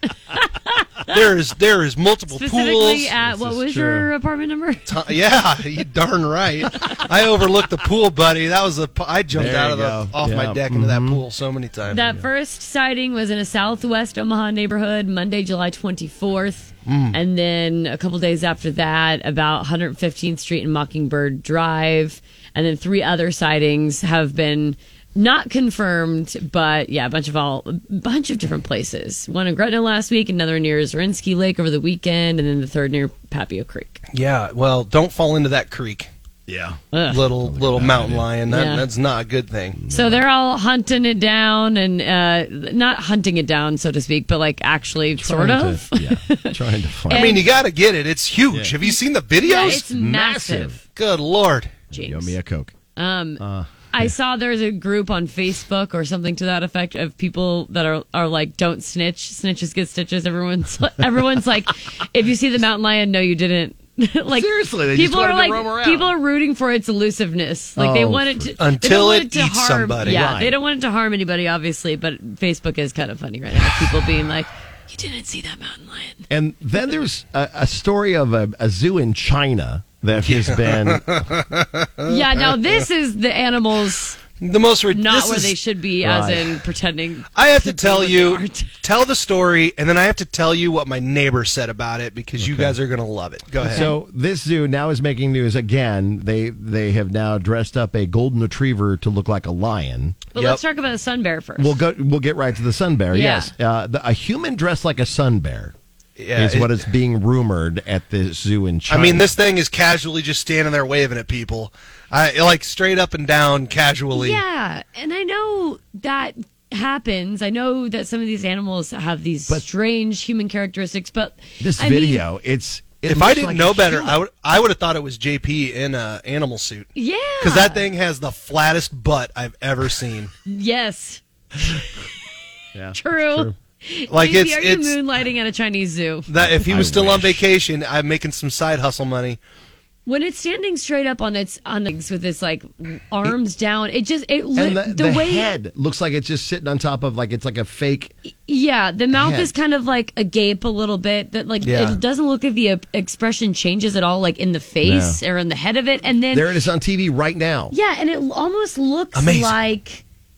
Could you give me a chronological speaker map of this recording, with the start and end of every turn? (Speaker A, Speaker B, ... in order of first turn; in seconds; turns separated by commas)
Speaker A: 0.3-1.1, Speaker B: 1.1-3.1, Speaker A: 2.3-4.9, Speaker C: 3.2-4.1, Speaker B: 4.9-12.1, Speaker C: 9.3-11.2, Speaker A: 11.9-34.0, Speaker C: 12.0-12.2, Speaker B: 16.9-17.2, Speaker B: 34.1-36.1, Speaker C: 36.5-36.8, Speaker A: 36.9-37.2, Speaker B: 37.1-39.8, Speaker C: 37.4-38.3, Speaker A: 38.5-38.8, Speaker C: 39.7-40.2, Speaker A: 39.9-46.5, Speaker C: 45.2-47.4, Speaker A: 47.1-47.4, Speaker B: 47.1-49.8, Speaker C: 48.5-48.8, Speaker A: 49.4-50.8, Speaker C: 49.5-50.8, Speaker B: 50.9-51.8, Speaker C: 51.9-52.7, Speaker A: 51.9-52.4, Speaker A: 53.0-76.2, Speaker C: 53.4-54.1, Speaker C: 64.3-66.1, Speaker C: 67.8-68.5, Speaker B: 68.6-70.2, Speaker C: 70.0-70.6, Speaker C: 76.3-81.2, Speaker B: 80.2-82.6, Speaker A: 82.0-84.2, Speaker B: 84.4-85.5, Speaker A: 84.9-88.7, Speaker C: 86.0-86.6, Speaker B: 87.3-93.9, Speaker C: 92.4-92.8, Speaker C: 93.6-100.2, Speaker A: 93.6-93.9, Speaker A: 100.3-101.7, Speaker B: 100.3-100.6, Speaker C: 101.6-105.7, Speaker A: 103.1-103.5, Speaker B: 106.2-106.8, Speaker C: 106.3-109.3, Speaker B: 108.9-114.4, Speaker A: 114.1-122.2, Speaker C: 121.6-124.2, Speaker B: 123.0-126.9, Speaker A: 126.9-127.8, Speaker B: 127.4-130.3, Speaker A: 130.4-132.0, Speaker C: 132.7-133.6, Speaker A: 132.9-136.3, Speaker B: 134.1-134.9, Speaker B: 136.3-139.4, Speaker C: 136.4-137.4, Speaker A: 140.1-145.5, Speaker C: 144.6-148.1, Speaker A: 148.5-156.5, Speaker C: 149.1-149.5, Speaker B: 151.6-152.0, Speaker C: 154.8-155.2, Speaker C: 156.3-157.7, Speaker A: 157.7-160.0, Speaker B: 159.1-159.6